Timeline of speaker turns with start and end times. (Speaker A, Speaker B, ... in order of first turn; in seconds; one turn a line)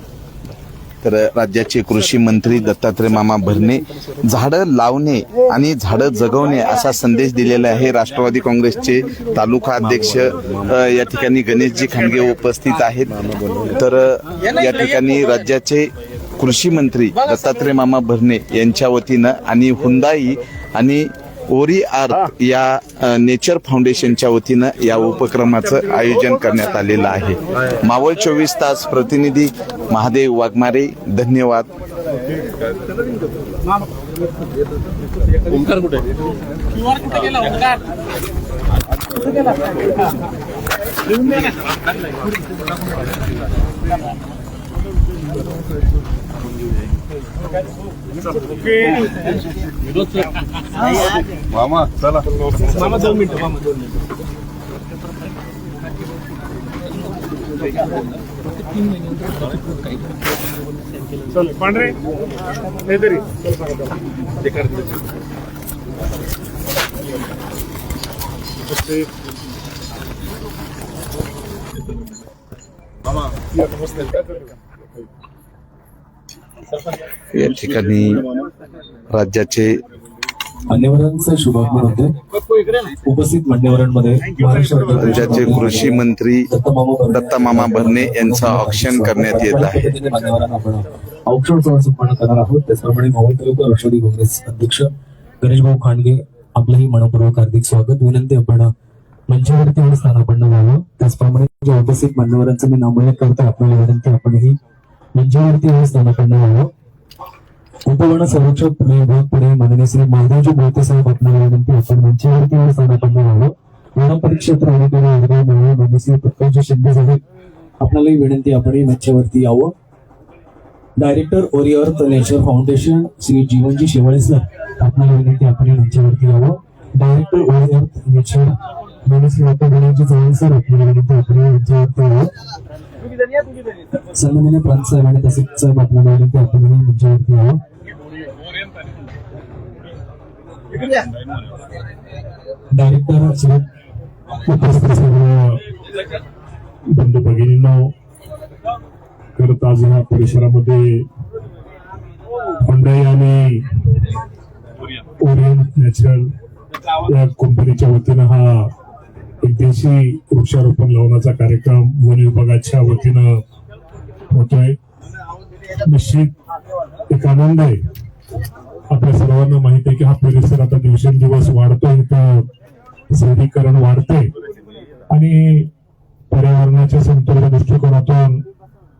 Speaker A: 1.0-31.7
Speaker B: 48.4-49.1
Speaker B: 52.6-53.2
Speaker B: 61.3-62.0
Speaker B: 62.9-63.9
Speaker B: 68.7-69.0
Speaker A: 77.3-78.2
Speaker A: 79.1-79.8
Speaker C: 80.7-82.1
Speaker C: 83.0-94.9
Speaker A: 85.0-86.5
Speaker A: 87.1-89.8
Speaker C: 95.4-98.7
Speaker C: 99.3-104.6
Speaker C: 105.2-106.7
Speaker C: 107.8-117.2
Speaker C: 117.8-119.7
Speaker C: 121.0-132.3
Speaker C: 134.1-137.6
Speaker C: 142.7-143.6
Speaker B: 144.4-145.6
Speaker B: 146.9-147.9
Speaker B: 149.3-151.1
Speaker B: 152.6-153.7
Speaker B: 155.2-156.3
Speaker B: 157.1-158.7
Speaker B: 159.4-163.4
Speaker B: 164.3-164.8
Speaker B: 165.8-166.3
Speaker B: 167.1-167.8
Speaker B: 168.9-172.5
Speaker B: 173.1-174.3
Speaker B: 175.1-175.7
Speaker B: 176.3-178.4